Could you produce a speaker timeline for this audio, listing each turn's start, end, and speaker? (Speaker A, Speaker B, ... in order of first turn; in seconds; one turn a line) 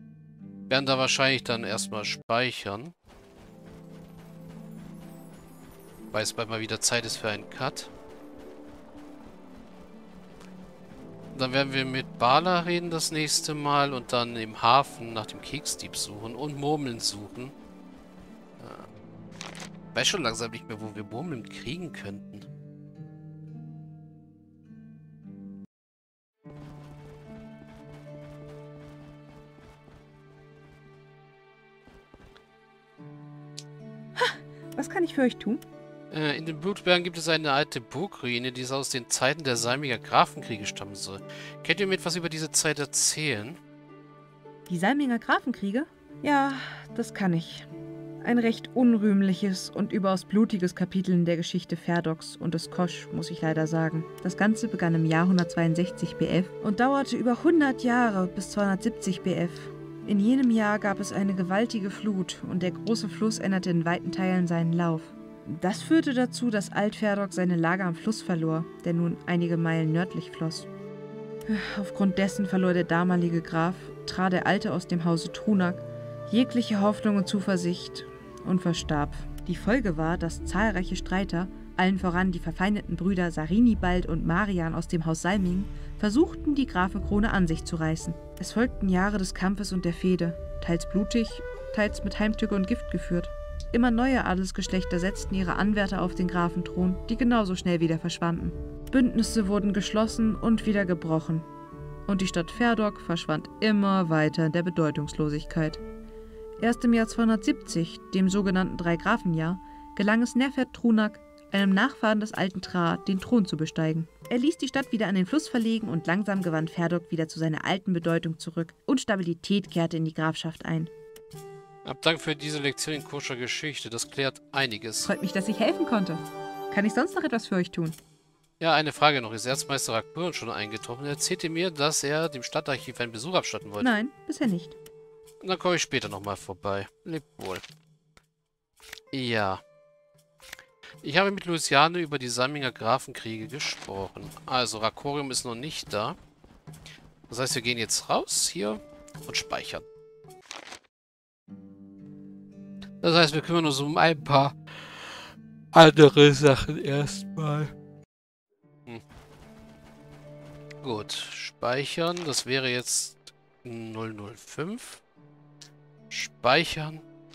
Speaker A: 0.7-2.9
Speaker A: 6.1-7.9
Speaker A: 11.3-17.5
Speaker A: 18.6-18.9
Speaker A: 19.9-22.5
Speaker B: 34.1-35.6
Speaker A: 36.1-43.6
Speaker B: 44.7-47.7
Speaker B: 48.2-70.7
Speaker B: 71.5-101.5
Speaker B: 102.1-105.8
Speaker B: 106.6-120.9
Speaker A: 121.8-125.1
Speaker B: 125.0-128.0
Speaker A: 128.6-133.9
Speaker B: 133.8-134.8
Speaker A: 135.4-137.6
Speaker A: 139.1-139.6
Speaker A: 141.0-146.2
Speaker A: 147.3-149.8
Speaker A: 153.0-154.6
Speaker A: 155.7-157.7
Speaker A: 160.8-165.0
Speaker A: 166.1-167.0